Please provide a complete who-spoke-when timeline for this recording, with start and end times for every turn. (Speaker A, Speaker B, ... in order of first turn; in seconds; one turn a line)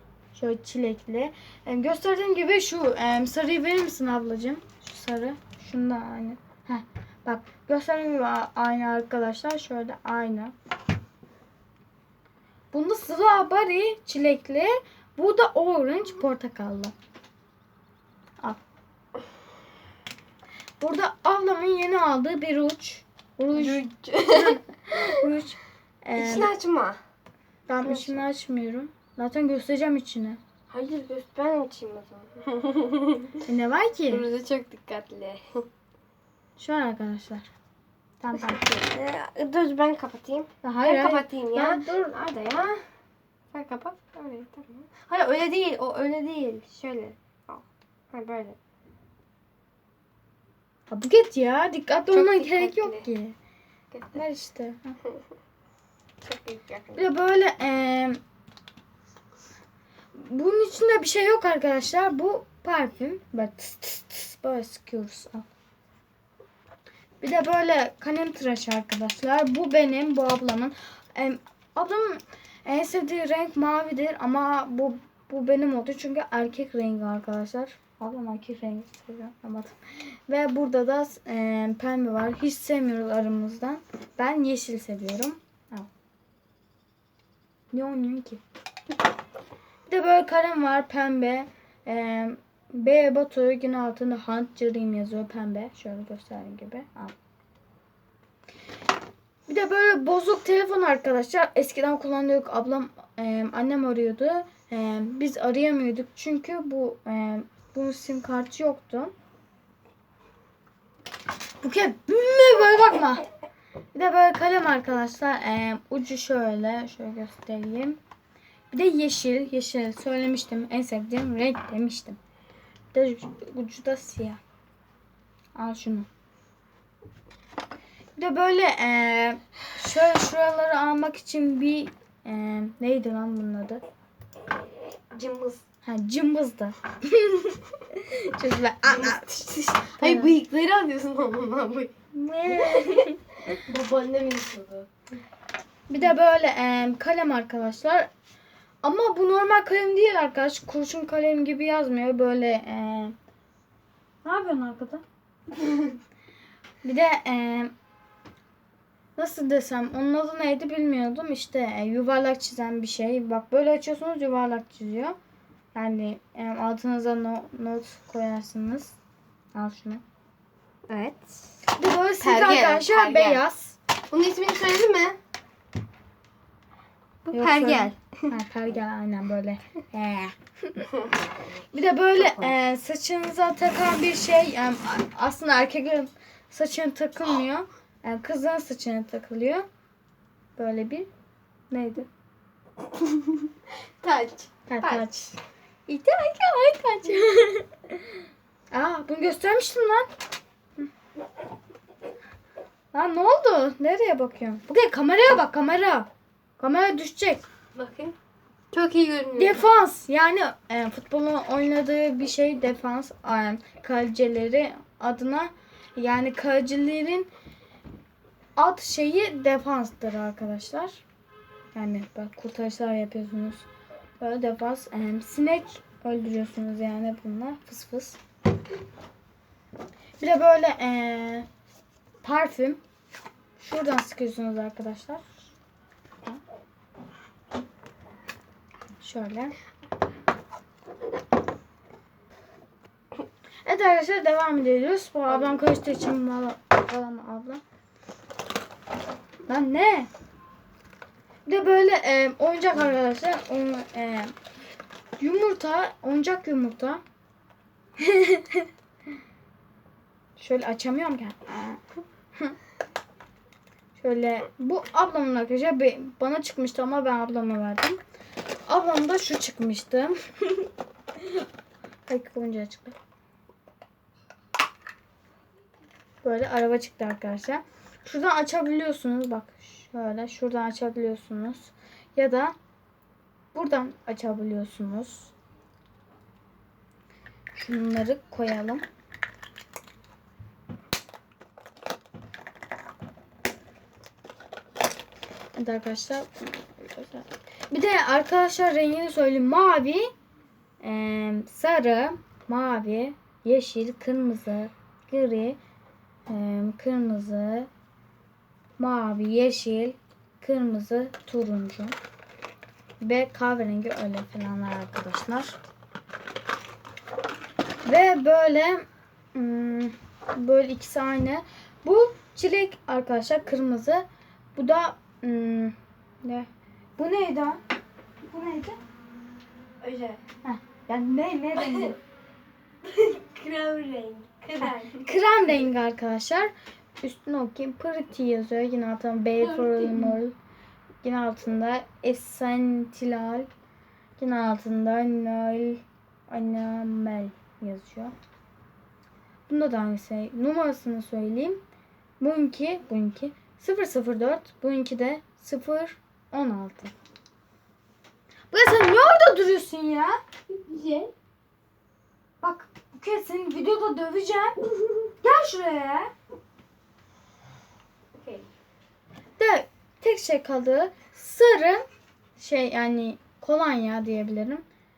Speaker A: 0.3-10.5
Speaker A: 12.7-16.9
Speaker A: 20.8-26.5
Speaker B: 23.5-25.2
Speaker B: 26.1-27.0
Speaker A: 27.7-30.4
Speaker B: 27.8-28.2
Speaker B: 30.7-33.4
Speaker A: 33.4-34.2
Speaker B: 34.1-35.6
Speaker A: 36.6-37.5
Speaker A: 38.2-38.6
Speaker B: 38.3-42.8
Speaker A: 40.6-42.2
Speaker B: 43.5-48.6
Speaker A: 50.9-53.4
Speaker B: 52.1-53.1
Speaker B: 53.9-54.2
Speaker A: 54.1-54.9
Speaker B: 56.2-57.0
Speaker A: 57.0-58.2
Speaker A: 60.1-65.5
Speaker A: 67.2-85.9
Speaker A: 87.7-88.4
Speaker A: 89.9-97.1
Speaker A: 99.5-109.1
Speaker A: 111.6-113.3
Speaker A: 113.9-118.0
Speaker A: 118.7-122.2
Speaker A: 122.9-124.4
Speaker A: 125.5-126.1
Speaker A: 128.2-133.8
Speaker B: 135.1-135.6
Speaker A: 135.8-139.3
Speaker B: 138.8-141.9
Speaker A: 140.0-140.3
Speaker A: 142.1-143.6
Speaker B: 142.5-144.9
Speaker A: 145.9-148.1
Speaker A: 148.8-153.1
Speaker A: 154.2-155.0
Speaker A: 156.8-157.7
Speaker A: 159.2-165.2
Speaker A: 165.7-169.0
Speaker A: 169.5-170.0
Speaker B: 170.9-171.4
Speaker A: 171.8-173.8
Speaker B: 172.2-173.4
Speaker B: 174.1-175.2
Speaker B: 177.2-178.3
Speaker A: 177.3-180.9
Speaker A: 181.7-189.7
Speaker A: 190.6-191.1
Speaker A: 191.7-192.1
Speaker B: 193.0-193.5
Speaker B: 194.0-195.4
Speaker A: 194.7-195.2
Speaker A: 195.9-197.8
Speaker A: 198.7-200.1
Speaker A: 202.9-207.4
Speaker B: 207.7-208.2
Speaker B: 208.7-209.6
Speaker A: 209.3-217.3
Speaker A: 218.6-221.0
Speaker A: 221.7-223.7
Speaker A: 224.2-228.2
Speaker A: 230.2-231.5
Speaker A: 232.2-232.8
Speaker A: 233.6-235.4
Speaker A: 239.0-239.5
Speaker A: 243.6-247.6
Speaker A: 249.5-250.1
Speaker A: 251.5-254.3
Speaker A: 255.2-257.0
Speaker A: 258.0-258.7
Speaker A: 260.4-261.8
Speaker A: 263.9-268.0
Speaker A: 268.7-270.7
Speaker A: 272.1-273.0
Speaker A: 276.2-282.5
Speaker A: 283.5-285.3
Speaker A: 287.5-288.8
Speaker A: 295.6-300.1
Speaker A: 300.8-305.6
Speaker A: 306.3-307.7
Speaker A: 308.8-311.9
Speaker A: 313.0-315.6
Speaker A: 317.8-327.6
Speaker A: 328.2-328.8
Speaker B: 329.8-330.2
Speaker A: 330.4-332.0
Speaker B: 331.5-331.9
Speaker B: 332.8-335.1
Speaker A: 334.6-340.3
Speaker B: 339.4-340.2
Speaker A: 341.0-343.5
Speaker A: 344.2-348.1
Speaker A: 349.5-351.6
Speaker A: 352.2-356.9
Speaker A: 358.5-360.2
Speaker B: 360.5-361.1
Speaker A: 362.4-364.6
Speaker A: 365.2-366.1
Speaker A: 369.4-371.9
Speaker A: 372.4-374.6